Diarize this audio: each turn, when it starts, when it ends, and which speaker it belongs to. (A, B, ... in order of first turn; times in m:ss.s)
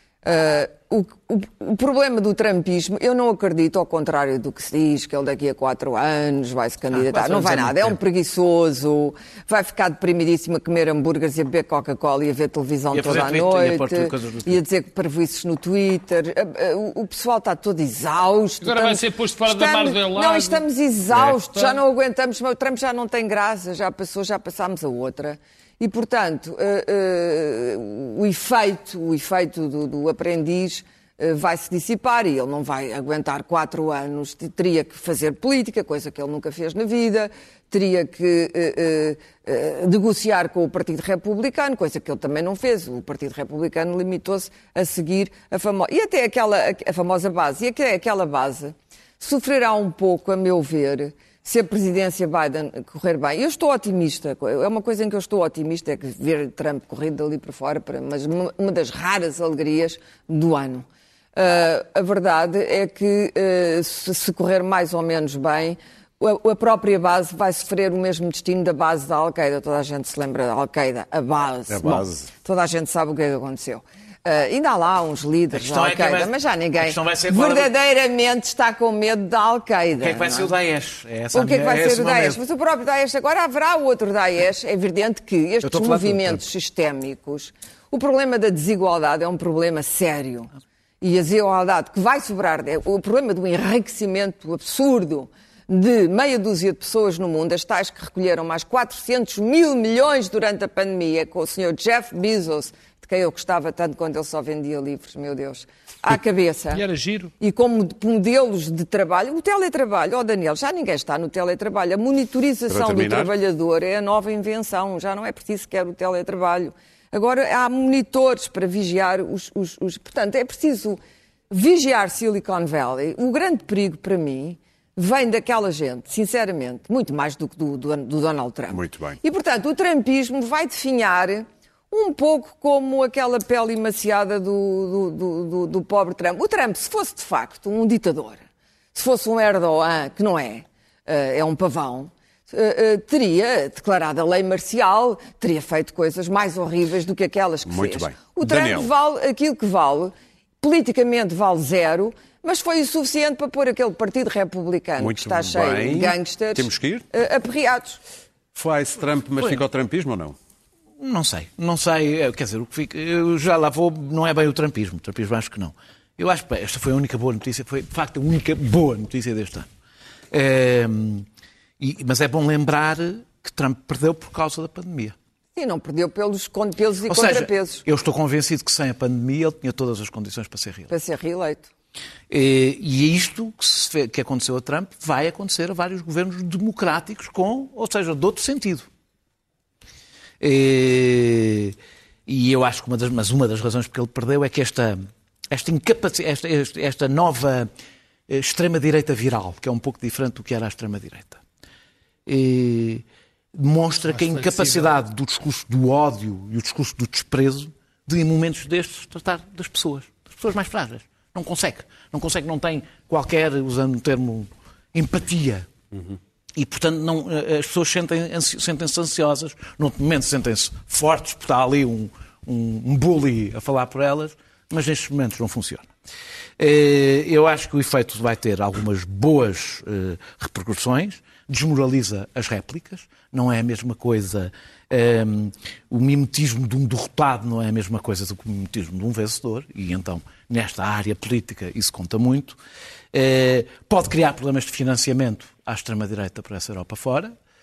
0:00.2-1:20.5 A
0:06.9-0:08.0 B
0:12.9-0:14.6 B
0:18.6-0:21.8 C
1:11.7-1:12.3 D
1:15.5-1:17.7 B
1:20.0-1:22.4 B
1:21.3-1:46.8 A
1:25.6-1:26.4 B
1:46.7-1:47.3 C
1:47.4-2:18.4 A
1:52.7-1:53.3 D
2:08.7-2:09.2 D
2:18.9-2:38.0 A
2:27.7-2:28.9 D
2:35.0-2:37.0 D
2:38.6-2:40.4 D
2:41.0-2:49.7 B
2:50.3-2:51.3 B
2:51.8-2:55.2 B
2:55.6-2:57.8 A
2:57.1-3:00.9 B
3:00.9-3:01.7 A
3:02.3-3:08.9 B
3:10.4-3:11.8 B
3:12.3-3:17.7 B
3:18.3-3:21.4 B
3:22.3-3:35.7 B
3:24.1-3:25.0 C
3:36.6-3:45.9 B
3:46.6-4:02.6 B
4:03.1-4:07.4 B